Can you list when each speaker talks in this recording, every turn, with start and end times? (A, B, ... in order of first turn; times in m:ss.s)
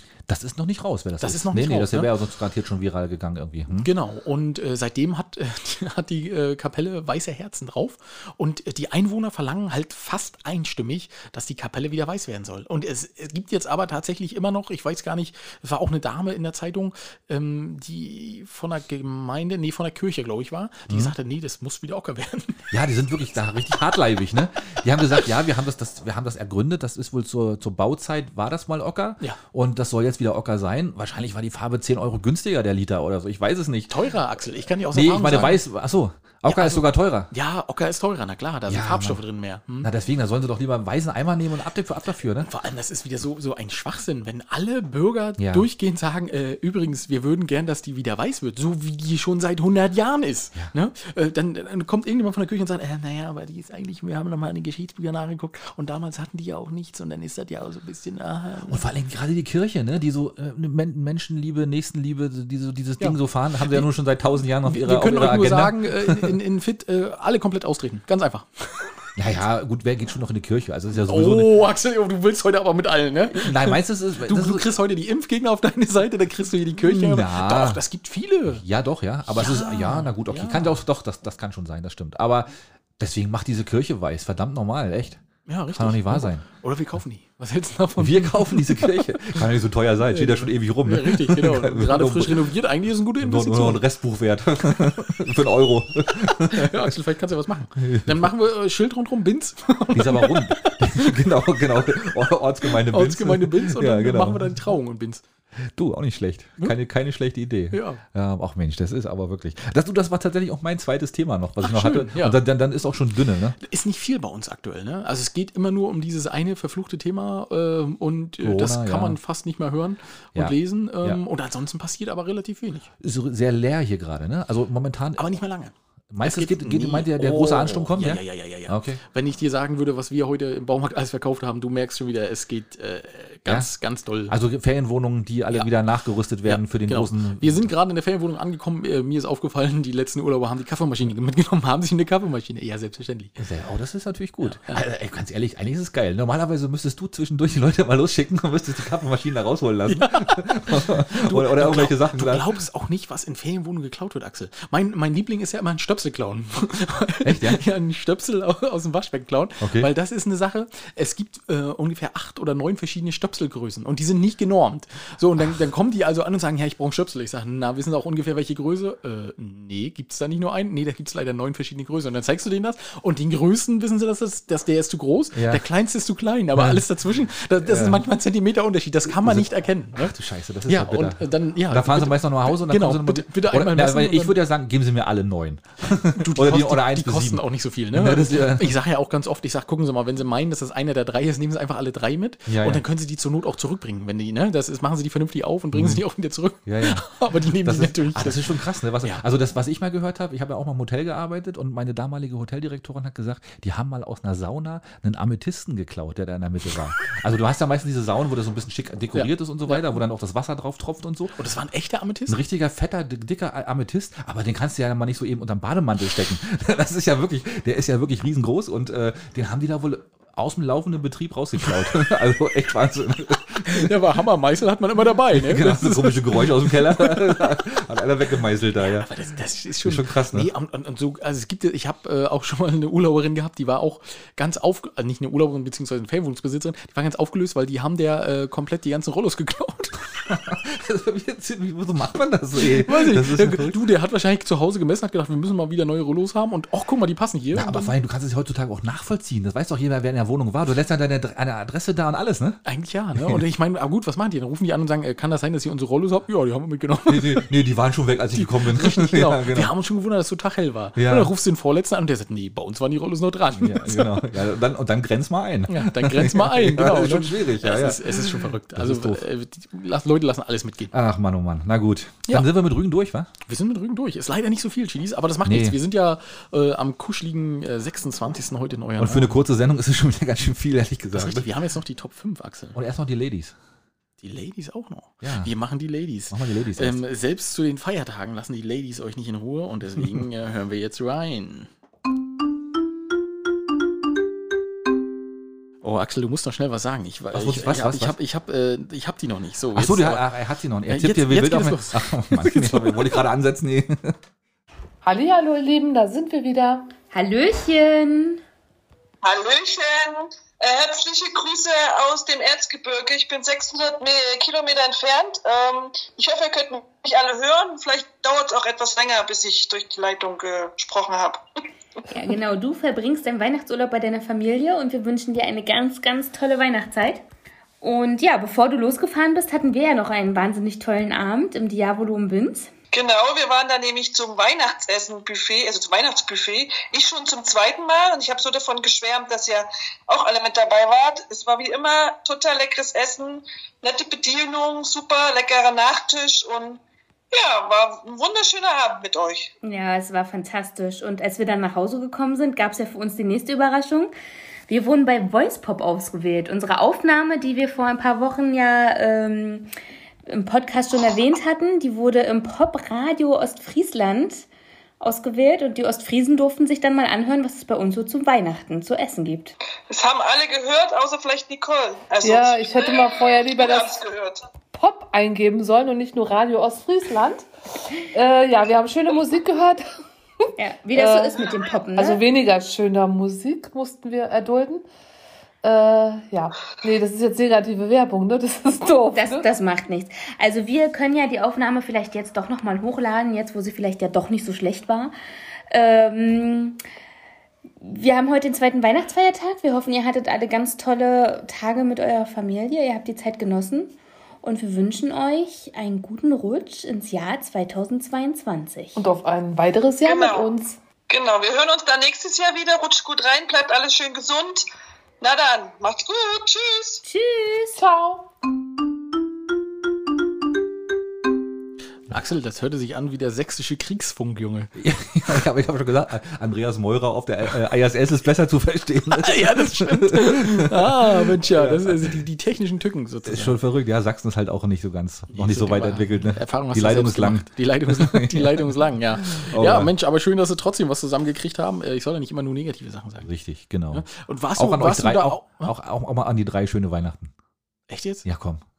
0:00.3-0:03.9 A
0:01.2-0:02.1 B
0:03.8-0:22.6 B
0:20.9-0:21.1 A
0:22.7-0:33.9 A
0:33.9-0:35.6 B
0:34.9-0:37.3 A
0:36.4-0:39.9 B
0:38.7-0:39.2 A
0:39.8-0:42.5 A
0:42.4-0:58.8 B
0:45.4-0:45.7 A
0:58.7-1:06.4 A
1:03.0-1:03.9 B
1:04.6-1:08.9 B
1:09.2-1:11.5 A
1:11.0-1:18.6 B
1:13.3-1:14.7 A
1:16.8-1:17.8 A
1:18.5-1:25.2 A
1:19.3-1:20.8 B
1:25.4-1:29.4 B
1:25.7-1:26.4 A
1:28.0-1:32.5 A
1:30.1-1:33.8 B
1:33.2-1:36.9 A
1:36.5-1:41.3 B
1:37.8-1:38.3 A
1:39.9-1:44.6 A
1:42.6-1:45.2 B
1:45.6-1:53.6 A
1:47.7-1:48.0 B
1:51.6-1:52.4 B
1:53.6-2:02.9 B
1:58.4-1:59.2 A
2:00.3-2:01.2 A
2:03.0-2:05.2 A
2:05.2-2:14.3 B
2:06.1-2:09.0 A
2:13.5-2:13.7 A
2:14.3-2:17.7 A
2:16.4-2:23.4 B
2:23.4-2:32.5 A
2:24.4-2:24.8 B
2:29.9-3:00.1 B
2:37.2-2:37.6 A
2:39.6-2:39.9 A
2:55.3-2:55.6 A
2:56.5-2:56.8 A
2:57.6-2:58.0 A
2:59.0-3:08.8 A
3:00.7-3:04.4 B
3:06.1-3:19.2 B
3:12.5-3:12.8 A
3:15.7-3:16.0 A
3:16.6-3:31.4 A
3:29.1-3:29.9 B
3:31.4-3:32.4 B
3:32.3-3:43.9 A
3:43.6-3:47.5 B
3:45.3-3:49.1 A
3:48.8-4:00.0 B
3:49.8-3:50.5 A
4:00.2-4:03.8 A
4:02.6-4:07.9 B
4:07.5-4:12.6 A
4:12.6-4:17.5 B
4:13.2-4:13.4 A
4:17.1-4:19.7 A
4:18.4-4:24.3 B
4:21.0-4:21.3 A
4:23.5-4:29.2 A
4:25.7-4:30.9 B
4:30.9-4:33.3 A
4:33.4-4:39.4 B
4:35.4-4:35.8 A
4:39.0-4:41.5 A
4:41.1-4:42.8 B
4:42.7-4:43.5 A
4:44.2-4:51.7 B
4:45.2-4:45.5 A
4:46.3-4:47.0 A
4:55.8-5:00.3 B
4:57.3-4:58.2 A
4:59.7-5:04.2 A
5:00.9-5:03.2 B
5:05.0-5:06.9 C
5:07.1-5:08.4 D
5:09.2-5:21.4 E
5:22.1-5:27.2 D
5:27.8-5:32.7 D
5:32.9-5:46.8 E
5:47.3-5:49.5 E
5:49.6-5:54.1 D
5:54.7-5:59.7 D
6:00.3-6:04.5 D
6:05.0-6:09.5 D
6:09.9-6:14.4 E
6:12.2-6:14.0 C
6:14.7-6:17.5 C
6:18.1-6:19.8 C
6:20.6-6:22.2 D
6:20.9-6:24.8 C
6:25.6-6:29.4 C
6:29.1-6:35.1 D
6:35.7-6:36.8 D
6:37.8-6:49.0 D
6:49.0-6:50.8 C
6:50.0-6:50.5 E
6:51.1-6:54.6 E
6:55.2-6:57.0 E
6:57.0-6:57.8 D
6:57.8-6:58.3 C
7:02.1-7:04.7 B
7:04.8-7:12.2 A
7:09.2-7:13.6 B
7:13.2-7:19.9 A
7:15.3-7:23.3 B
7:23.2-7:27.3 A
7:23.9-7:25.7 B
7:27.9-7:28.2 B
7:28.2-7:28.6 A